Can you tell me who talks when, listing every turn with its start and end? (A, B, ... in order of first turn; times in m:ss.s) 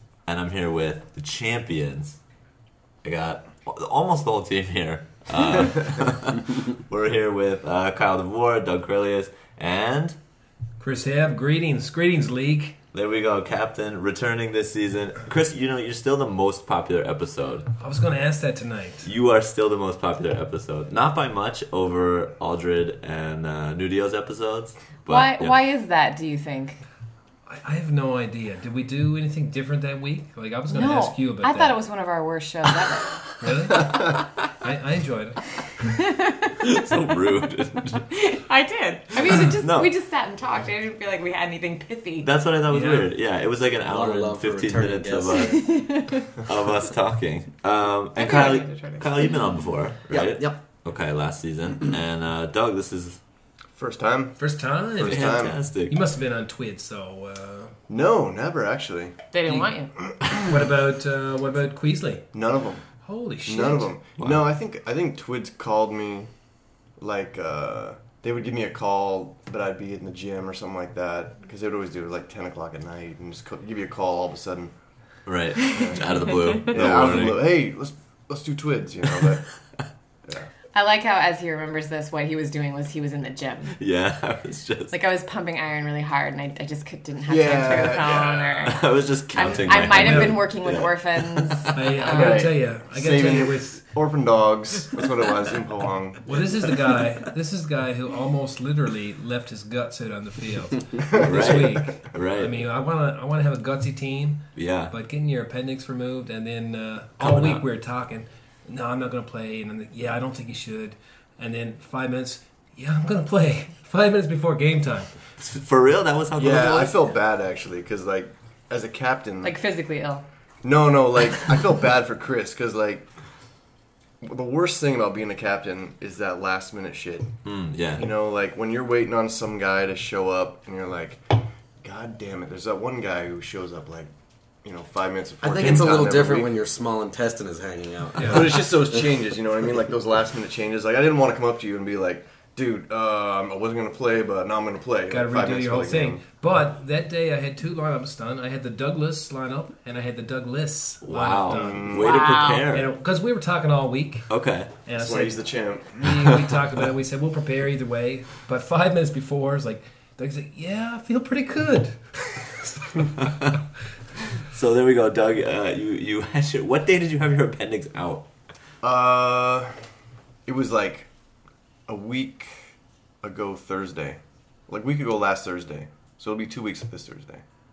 0:00.2-0:02.2 A
0:03.0-0:10.2 A
0:10.8-0:12.8 B
0:12.9-0:17.7 A
0:17.8-0:19.1 B
0:19.0-0:25.6 A
0:25.1-0:26.8 C
0:27.5-0:31.8 B
0:30.7-0:33.2 C
0:33.4-0:35.4 B
0:35.8-0:36.8 C
0:36.6-0:38.0 A
0:38.0-0:42.3 C
0:39.4-0:39.9 A
0:42.2-0:45.8 A
0:42.7-0:43.1 B
0:43.8-0:45.6 D
0:45.4-0:46.4 C
0:46.3-0:53.2 A
0:48.1-0:49.5 C
0:50.1-0:50.6 D
0:53.8-0:54.4 E
0:54.4-0:57.7 B
0:55.0-0:55.6 E
0:55.0-0:56.0 A
0:57.9-0:59.2 E
0:59.3-0:59.9 C
0:59.4-0:59.7 B
1:00.2-1:02.2 B
1:02.3-1:02.8 E
1:03.0-1:03.9 B
1:03.4-1:06.3 E
1:04.2-1:04.4 A
1:07.0-1:14.7 E
1:15.2-1:17.5 A
1:15.7-1:16.0 E
1:16.7-1:19.5 E
1:20.7-1:23.8 C
1:23.8-1:25.0 A
1:24.9-1:32.5 C
1:27.2-1:28.7 E
1:28.6-1:32.0 A
1:29.4-1:30.2 E
1:29.9-1:30.4 B
1:31.7-1:33.8 B
1:32.1-1:36.5 E
1:36.2-1:55.1 B
1:41.1-1:42.6 A
1:41.2-1:41.8 E
1:44.6-1:44.9 A
1:47.2-1:47.6 A
1:55.4-1:57.0 A
1:56.4-1:59.6 E
1:59.4-2:00.2 C
2:00.6-2:03.0 E
2:04.2-2:07.3 E
2:07.4-2:08.1 A
2:08.0-2:14.1 E
2:14.6-2:16.5 E
2:15.4-2:19.0 D
2:18.2-2:18.4 B
2:18.2-2:26.2 E
2:25.1-2:34.3 B
2:31.0-2:32.9 A
2:31.5-2:32.4 E
2:31.9-2:32.7 C
2:34.3-2:34.7 A
2:34.8-2:43.5 B
2:35.0-2:36.2 E
2:44.4-2:48.2 A
2:48.8-2:49.7 E
2:50.4-2:51.1 E
2:51.9-2:57.4 E